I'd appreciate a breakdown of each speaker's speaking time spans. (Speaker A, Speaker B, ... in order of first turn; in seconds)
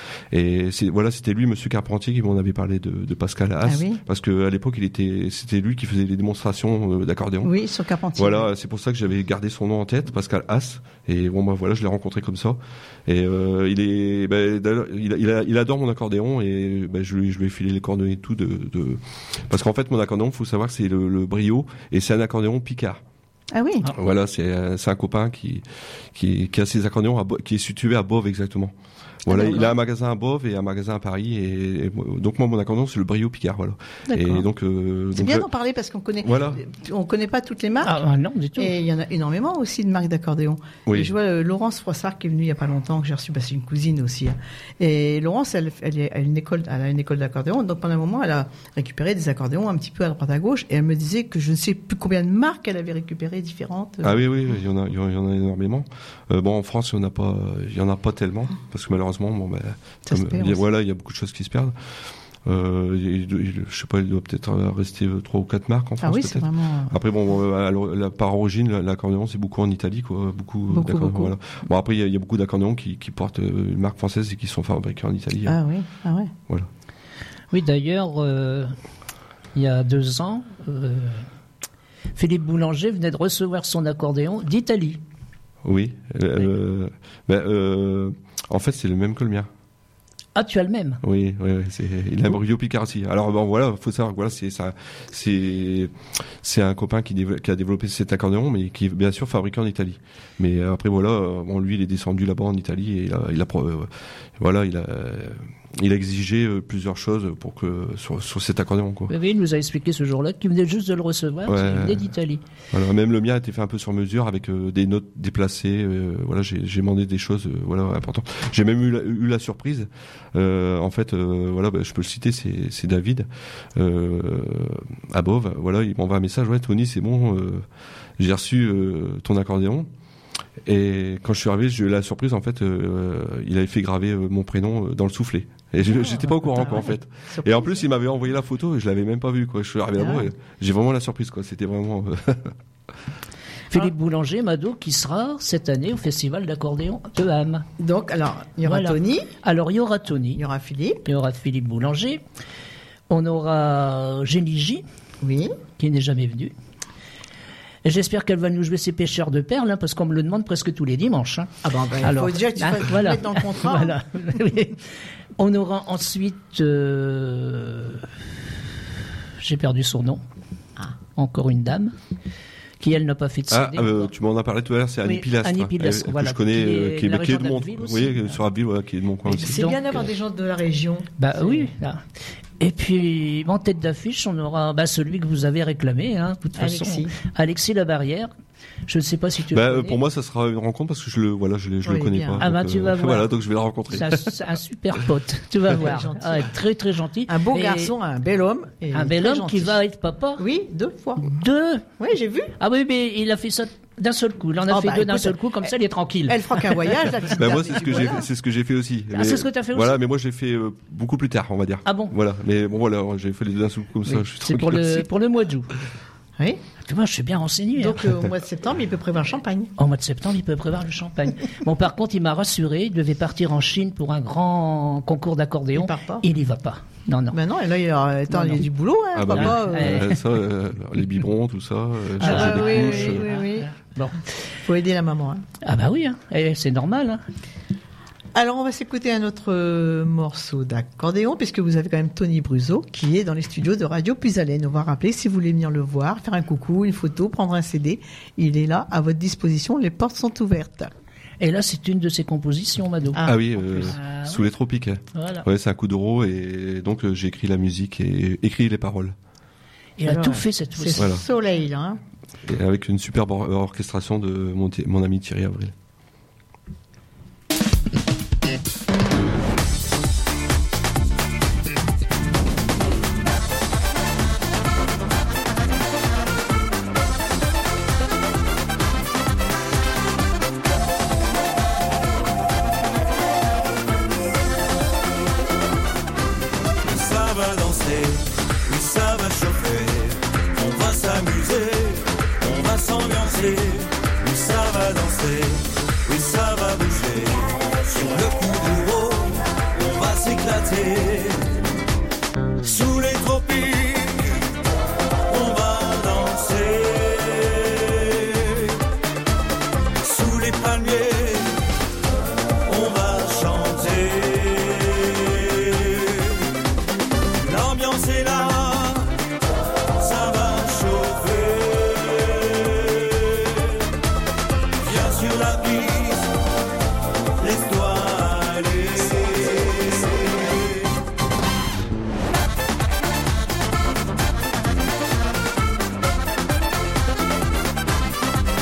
Speaker A: 0.3-7.5, 8.2-23.0, 23.9-28.7, 29.2-35.5, 36.2-36.6, 40.9-41.1, 54.0-61.7, 62.5-75.6, 85.6-89.5, 91.0-109.1, 111.5-112.1, 112.7-127.6, 128.2-129.9, 130.7-142.6, 173.5-179.7, 189.5-194.4, 207.3-215.1, 229.1-233.3, 253.2-259.1, 261.0-261.2, 262.4-265.7
Speaker B: 3.6-4.0, 7.4-8.5, 23.5-23.9, 29.3-29.7, 34.1-34.5, 35.1-38.0, 38.6-54.2, 60.1-60.6, 66.0-67.0, 70.7-71.3, 75.5-76.3, 135.9-137.8, 140.0-140.3, 147.8-149.3, 150.4-151.0, 155.2-155.6, 161.6-164.0, 179.3-181.7, 186.6-187.2, 191.8-192.4, 195.7-196.5, 197.3-199.8, 200.4-201.3, 202.0-202.5, 204.7-205.7, 206.3-208.3, 217.8-219.7, 225.8-226.2, 227.3-230.1, 232.2-233.7, 234.6-235.4, 238.3-250.9, 253.2-253.9, 260.1-262.0
Speaker C: 37.8-38.7, 77.5-78.8, 79.5-81.2, 82.2-85.0, 90.3-91.0, 109.1-112.4, 143.7-147.7, 148.7-150.4, 151.1-152.2, 153.1-154.8, 155.8-156.5, 157.8-164.8, 165.4-168.1, 169.4-170.2, 171.2-171.9, 172.8-174.1, 175.0-178.4, 179.3-180.0, 181.2-182.0, 182.6-188.3, 188.9-190.0, 192.4-193.3, 193.9-197.9, 198.9-200.4, 201.2-201.9, 202.6-206.7, 209.1-210.0, 211.9-212.2, 214.1-215.7, 216.8-218.0, 219.8-227.4, 228.3-228.6, 229.3-230.2, 232.2-234.2, 235.6-237.2, 251.4-254.5, 255.1-255.5, 260.0-261.1
Speaker D: 286.9-301.7, 302.6-304.6, 305.3-308.8, 310.0-311.7, 312.6-316.6, 317.4-319.2, 319.9-323.9, 324.8-326.4, 327.4-330.9